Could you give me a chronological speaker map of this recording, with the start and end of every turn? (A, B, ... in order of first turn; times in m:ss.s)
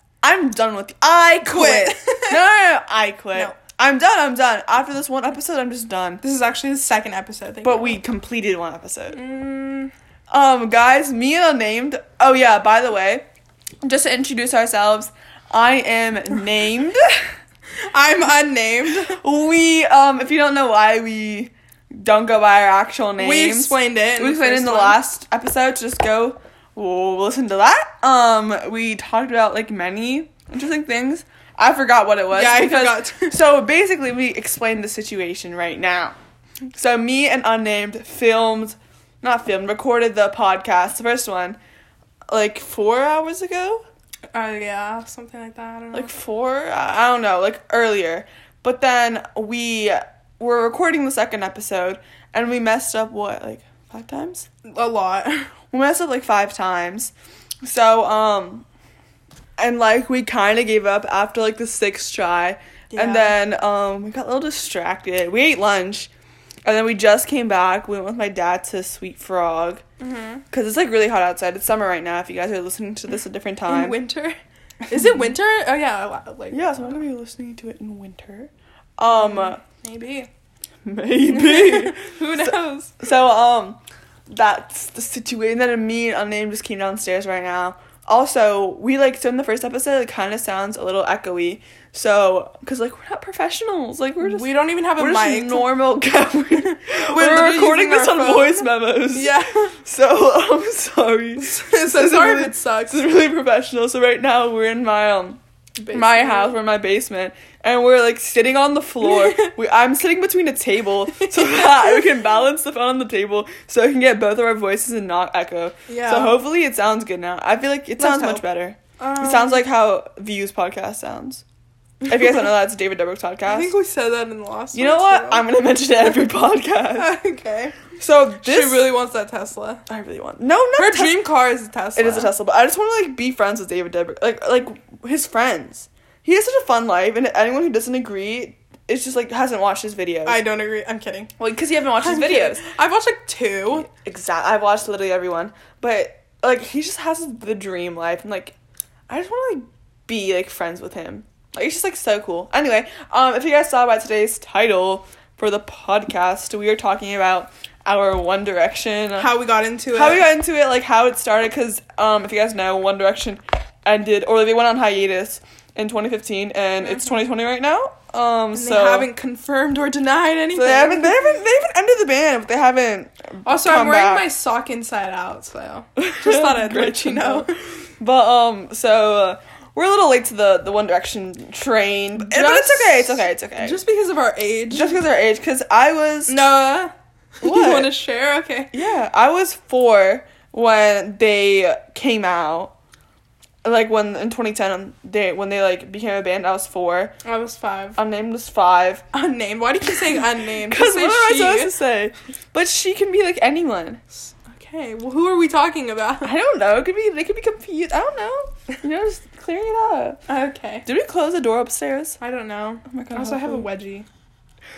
0:00.2-0:06.2 A
0:01.4-0:02.4 B
0:06.2-0:08.0 B
0:07.6-0:09.2 A
0:09.1-0:09.9 B
0:10.3-0:13.2 A
0:13.8-0:17.3 A
0:17.8-0:19.2 B
0:19.1-0:36.1 A
0:23.2-0:25.0 B
0:32.3-0:33.4 B
0:36.7-0:41.6 A
0:42.3-0:43.8 A
0:44.3-0:46.1 B
0:45.9-0:54.5 A
0:54.6-0:55.5 B
0:55.7-0:57.1 A
0:57.6-0:58.6 A
0:59.6-1:06.1 A
1:02.9-1:03.4 B
1:06.6-1:09.8 A
1:10.0-1:10.4 B
1:10.5-1:14.0 A
1:13.7-1:14.4 B
1:14.9-1:16.9 B
1:16.5-1:19.6 A
1:19.1-1:20.3 B
1:20.8-1:23.8 A
1:21.3-1:23.0 B
1:24.3-1:45.4 A
1:34.2-1:35.8 B
1:36.5-1:39.7 B
1:41.4-1:43.1 B
1:45.8-1:46.6 B
1:45.9-2:01.4 A
1:49.0-1:49.5 B
1:51.2-1:52.0 B
1:55.9-1:56.4 B
1:58.0-1:58.4 B
1:59.0-1:59.6 B
2:02.0-2:03.7 A
2:03.5-2:05.5 B
2:04.7-2:07.2 A
2:07.0-2:07.8 B
2:08.0-2:08.9 A
2:08.4-2:09.8 B
2:09.9-2:11.3 A
2:10.8-2:12.3 B
2:11.9-2:20.4 A
2:20.2-2:21.3 B
2:21.4-2:22.6 A
2:22.0-2:23.9 B
2:23.7-2:28.5 A
2:29.1-2:39.3 A
2:39.2-2:40.3 B
2:39.9-2:49.1 A
2:48.5-2:51.2 B
2:50.5-2:54.3 A
2:53.4-2:57.5 B
2:56.0-3:03.8 A
3:02.2-3:05.0 B
3:04.7-3:06.4 A
3:06.3-3:08.7 B
3:07.4-3:08.0 A
3:08.7-3:12.7 A
3:13.6-3:17.1 A
3:17.2-3:18.0 B
3:18.0-3:19.0 A
3:19.1-3:21.7 B
3:20.6-3:24.0 A
3:24.2-3:26.3 B
3:26.2-3:30.2 A
3:30.3-3:30.9 B
3:30.8-3:32.2 A
3:32.2-3:34.0 B
3:32.8-3:33.7 A